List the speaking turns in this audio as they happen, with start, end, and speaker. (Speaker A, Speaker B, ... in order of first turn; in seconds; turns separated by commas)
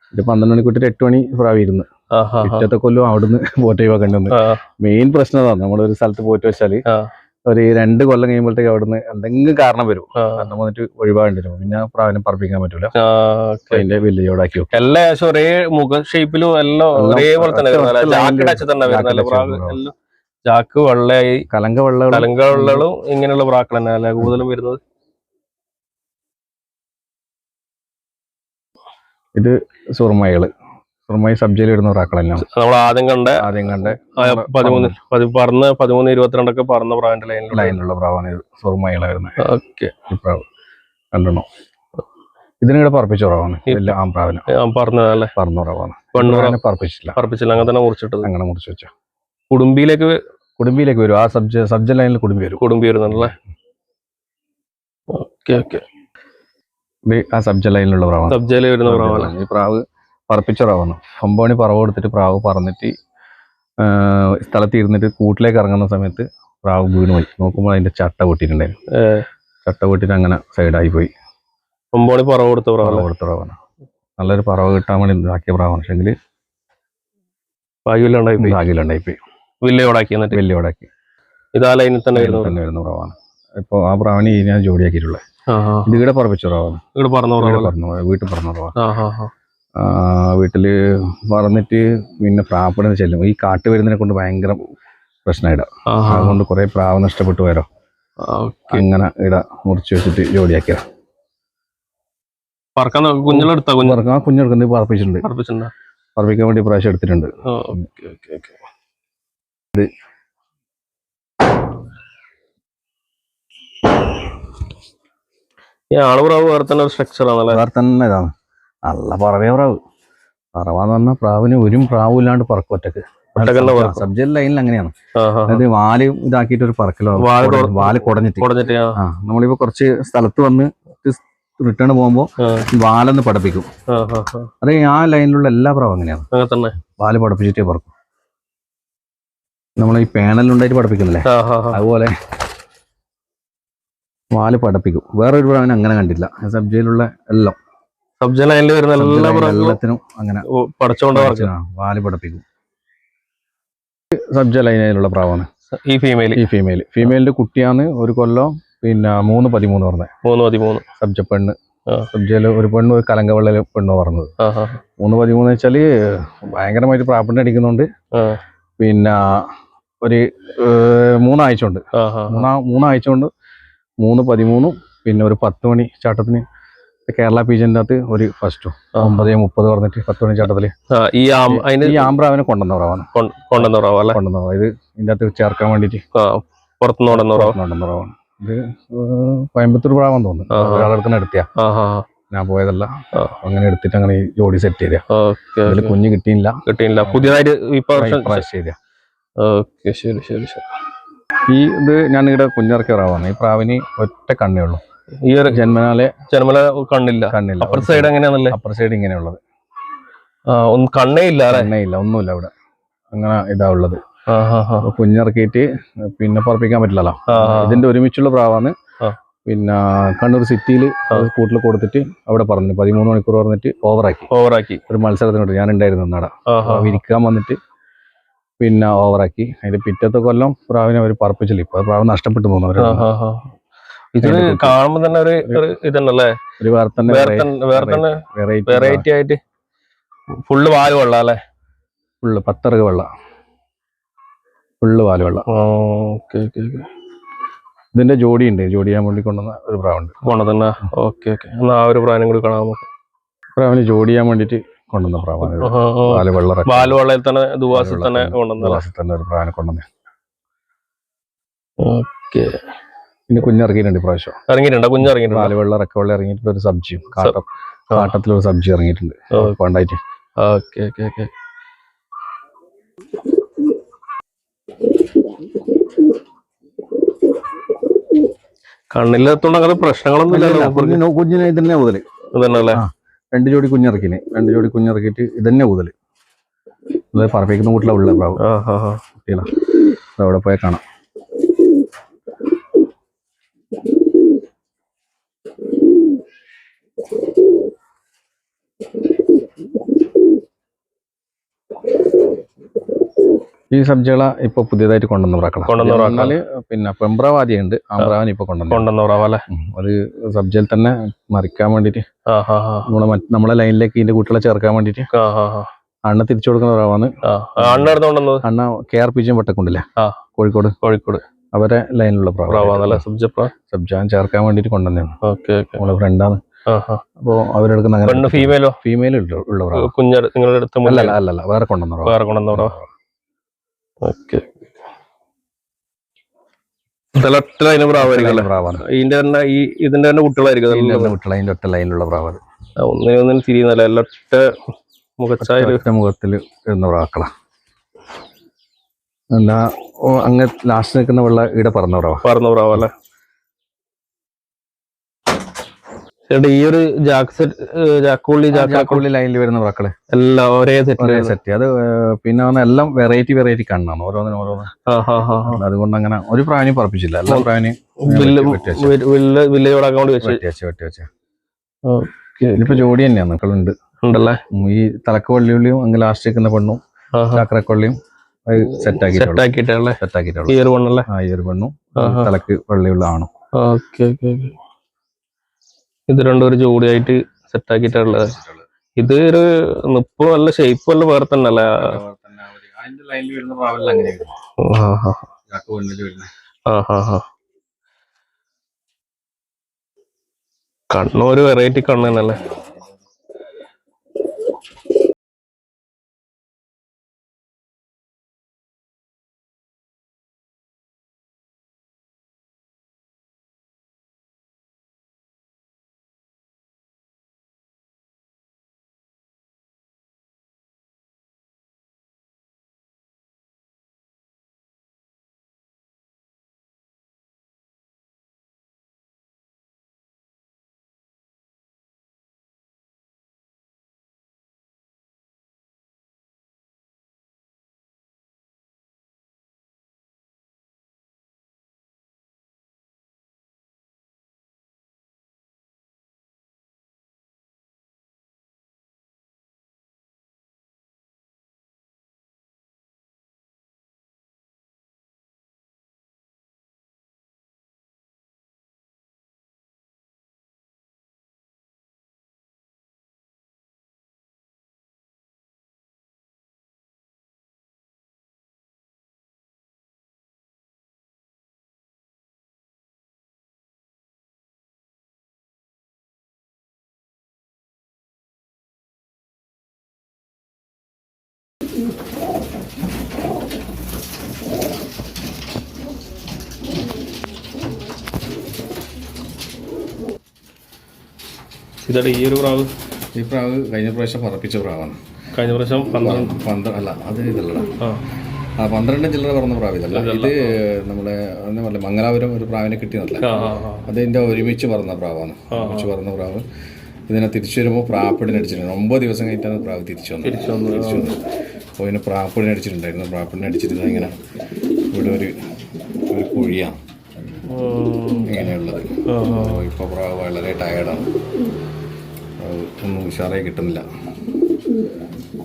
Speaker A: 0.1-1.9, Speaker B: 2.1-2.7, Speaker A: 2.4-6.8, Speaker B: 4.3-4.6, Speaker A: 7.5-12.9, Speaker B: 10.2-10.5, Speaker B: 13.0-13.8, Speaker A: 13.7-14.8, Speaker B: 14.7-19.9, Speaker A: 16.9-19.8, Speaker B: 20.4-21.4, Speaker A: 21.5-22.9, Speaker B: 22.1-24.8, Speaker A: 29.4-30.5, Speaker A: 31.1-32.5, Speaker B: 32.4-37.8, Speaker A: 33.4-35.0, Speaker A: 37.5-39.4, Speaker B: 39.4-39.9, Speaker A: 40.1-40.4, Speaker A: 41.1-41.5, Speaker A: 42.6-44.5, Speaker B: 43.7-43.9, Speaker B: 44.5-45.3, Speaker A: 45.4-47.2, Speaker B: 46.1-46.6, Speaker B: 47.1-48.3, Speaker A: 48.2-48.9, Speaker B: 49.5-50.2, Speaker A: 50.6-53.3, Speaker B: 52.6-53.3, Speaker B: 55.1-55.8, Speaker A: 57.1-62.9, Speaker B: 58.3-59.3, Speaker A: 63.8-68.7, Speaker B: 69.0-69.2, Speaker A: 69.6-71.1, Speaker B: 71.9-73.1, Speaker A: 72.8-73.6, Speaker A: 74.2-76.1, Speaker B: 77.8-78.6, Speaker A: 78.4-79.2, Speaker B: 79.6-80.4, Speaker A: 80.3-80.9, Speaker B: 81.5-82.6, Speaker A: 82.1-85.2, Speaker B: 85.5-86.0, Speaker A: 85.8-86.8, Speaker B: 87.0-87.7, Speaker A: 87.4-88.7, Speaker B: 88.8-89.3, Speaker A: 89.8-94.6, Speaker A: 95.2-97.7, Speaker B: 95.9-96.4, Speaker B: 98.2-98.8, Speaker A: 98.7-100.8, Speaker B: 102.8-104.0, Speaker A: 103.3-105.2, Speaker B: 105.2-105.7, Speaker A: 106.2-107.8, Speaker B: 107.4-108.6, Speaker B: 115.9-117.6, Speaker A: 117.5-118.3, Speaker A: 118.8-119.8, Speaker A: 120.5-124.9, Speaker B: 123.4-124.0, Speaker B: 125.2-125.6, Speaker A: 125.5-133.7, Speaker B: 127.2-128.9, Speaker B: 132.4-132.7, Speaker B: 133.9-134.5, Speaker A: 134.6-136.2, Speaker B: 136.3-136.8, Speaker A: 137.0-137.9, Speaker A: 139.8-142.1, Speaker B: 141.2-141.8, Speaker A: 144.3-147.6, Speaker B: 148.2-149.8, Speaker A: 149.0-150.4, Speaker B: 150.5-151.5, Speaker A: 151.1-152.4, Speaker A: 154.1-155.5, Speaker B: 155.7-156.4, Speaker A: 156.3-160.1, Speaker B: 160.2-160.8, Speaker A: 161.0-161.5, Speaker A: 162.1-164.3, Speaker B: 164.4-164.8, Speaker A: 165.0-167.9, Speaker B: 168.1-168.4, Speaker A: 168.8-169.5, Speaker A: 170.0-173.3, Speaker B: 171.9-172.5, Speaker A: 174.0-176.4, Speaker A: 177.1-180.7, Speaker B: 178.9-179.3, Speaker B: 180.9-182.1, Speaker A: 181.4-186.0, Speaker B: 183.1-184.2, Speaker B: 186.1-187.6, Speaker A: 187.1-191.5, Speaker B: 190.5-190.9, Speaker B: 191.6-192.0, Speaker A: 192.3-195.0, Speaker B: 195.1-196.0, Speaker A: 195.7-197.4, Speaker B: 196.7-198.4, Speaker A: 197.9-198.8, Speaker B: 199.4-200.6, Speaker A: 201.5-204.8, Speaker B: 205.2-205.7, Speaker A: 205.5-206.1, Speaker B: 206.3-208.6, Speaker A: 207.3-209.4, Speaker B: 210.5-211.7, Speaker A: 211.5-212.5, Speaker A: 213.1-214.0, Speaker B: 214.3-214.9, Speaker A: 214.8-218.7, Speaker B: 217.3-217.8, Speaker A: 219.5-224.3, Speaker B: 224.3-224.8, Speaker A: 224.9-227.6, Speaker B: 226.5-227.0, Speaker A: 228.6-233.1, Speaker B: 232.8-233.5, Speaker B: 234.2-236.3, Speaker A: 234.2-234.8, Speaker A: 236.6-239.1, Speaker B: 237.1-239.4, Speaker B: 240.5-241.4, Speaker A: 242.2-243.1, Speaker A: 244.8-245.4, Speaker B: 245.5-246.9, Speaker A: 247.9-250.1, Speaker B: 250.2-252.9, Speaker A: 253.6-257.0, Speaker B: 255.4-258.8, Speaker A: 257.7-259.8, Speaker B: 261.8-262.5, Speaker A: 263.3-264.3, Speaker B: 264.5-265.5, Speaker A: 265.0-270.0, Speaker B: 270.4-271.3, Speaker B: 278.9-281.0, Speaker A: 280.3-282.0, Speaker B: 282.3-282.8, Speaker A: 282.7-285.9, Speaker A: 287.1-288.4, Speaker B: 288.4-289.0, Speaker A: 289.2-289.5, Speaker A: 290.2-290.8, Speaker A: 303.7-308.9, Speaker B: 305.7-306.4, Speaker B: 308.7-309.4, Speaker A: 309.5-312.0, Speaker B: 312.3-312.9, Speaker A: 312.9-315.1, Speaker B: 315.1-315.7, Speaker A: 316.1-319.8, Speaker B: 317.2-318.4, Speaker A: 320.4-320.8, Speaker B: 320.8-321.2, Speaker A: 321.5-323.0, Speaker B: 322.5-323.5, Speaker A: 323.7-325.1, Speaker B: 325.2-325.8, Speaker A: 325.8-326.4, Speaker B: 326.7-327.0, Speaker A: 327.2-329.9, Speaker B: 328.0-328.8, Speaker B: 329.7-331.2, Speaker A: 330.8-332.9, Speaker B: 332.1-332.7, Speaker B: 334.0-334.7, Speaker B: 337.1-341.1, Speaker A: 337.9-338.8, Speaker A: 340.7-342.4, Speaker B: 342.8-344.5, Speaker B: 345.2-345.8, Speaker A: 345.4-347.3, Speaker A: 349.3-352.2, Speaker B: 352.2-352.9, Speaker B: 356.3-359.1, Speaker A: 358.5-359.9, Speaker B: 360.1-361.3, Speaker A: 361.0-364.7, Speaker B: 364.9-365.6, Speaker A: 365.4-368.9, Speaker B: 368.0-370.4, Speaker A: 370.2-371.1, Speaker B: 371.9-372.8, Speaker A: 372.6-373.7, Speaker B: 374.0-374.4, Speaker A: 374.5-376.8, Speaker B: 377.1-377.4, Speaker A: 377.3-377.9, Speaker A: 378.5-379.5, Speaker B: 378.6-381.1, Speaker A: 380.0-383.3, Speaker B: 382.0-382.3, Speaker B: 383.6-384.6, Speaker B: 386.1-388.3, Speaker A: 388.0-388.6, Speaker B: 389.0-392.0, Speaker A: 391.7-394.3, Speaker B: 394.6-395.2, Speaker A: 395.5-396.3, Speaker B: 396.7-397.2, Speaker B: 400.9-402.4, Speaker A: 402.2-402.6, Speaker B: 491.8-492.7, Speaker A: 493.1-495.0, Speaker B: 495.3-496.3, Speaker A: 496.0-497.7, Speaker A: 498.6-506.4, Speaker B: 499.9-500.6, Speaker B: 503.2-503.9, Speaker B: 505.5-505.9, Speaker A: 507.1-511.2, Speaker B: 510.2-511.1, Speaker A: 511.8-514.1, Speaker A: 514.9-515.3, Speaker A: 516.1-516.8, Speaker B: 517.5-518.5, Speaker A: 518.2-521.1, Speaker B: 519.1-519.6, Speaker A: 522.4-523.8